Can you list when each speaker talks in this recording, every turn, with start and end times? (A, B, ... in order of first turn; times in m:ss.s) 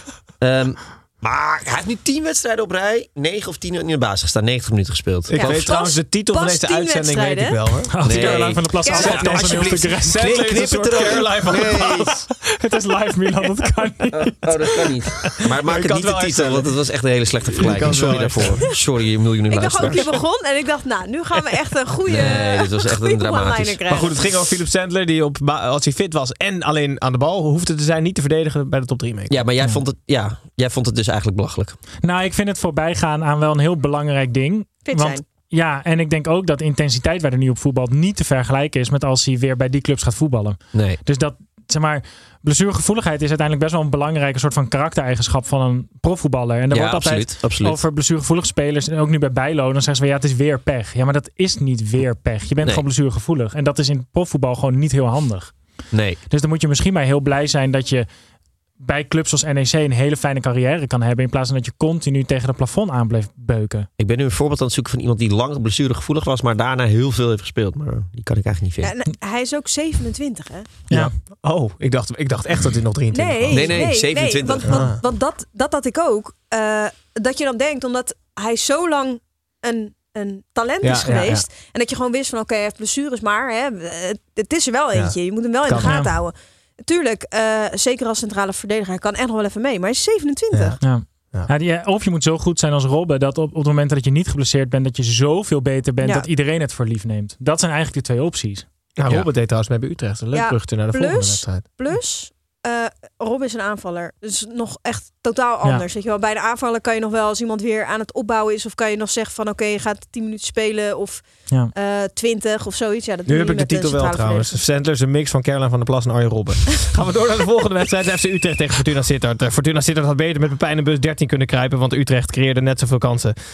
0:00.4-0:05.6 A
0:05.3-0:08.0 B
0:05.3-0:07.6 C
0:07.9-0:10.5 D
0:08.0-0:12.2 A
0:08.1-0:09.3 C
0:09.2-0:12.3 B
0:12.5-0:14.9 D
0:14.1-0:20.2 A
0:15.5-0:16.7 B
0:17.5-0:18.7 B
0:19.5-0:24.1 C
0:19.8-0:20.1 B
0:22.1-0:23.8 A
0:23.9-0:29.4 B
0:29.3-0:31.8 A
0:32.0-0:55.5 D
0:34.9-0:35.2 C
0:40.7-0:41.0 A
0:46.7-0:47.8 A
0:55.9-0:56.2 A
0:56.3-0:58.1 D
0:58.8-1:03.9 D
1:04.0-1:08.9 A
1:08.8-1:10.7 C
1:10.9-1:13.9 B
1:13.1-1:30.8 C
1:13.5-1:14.9 A
1:14.7-1:15.0 B
1:20.8-1:21.4 B
1:25.7-1:26.0 B
1:25.8-1:26.1 D
1:30.5-1:30.8 B
1:30.8-1:38.6 D
1:36.0-1:36.3 C
1:39.0-1:41.6 B
1:40.3-1:54.6 C
1:53.3-2:03.4 B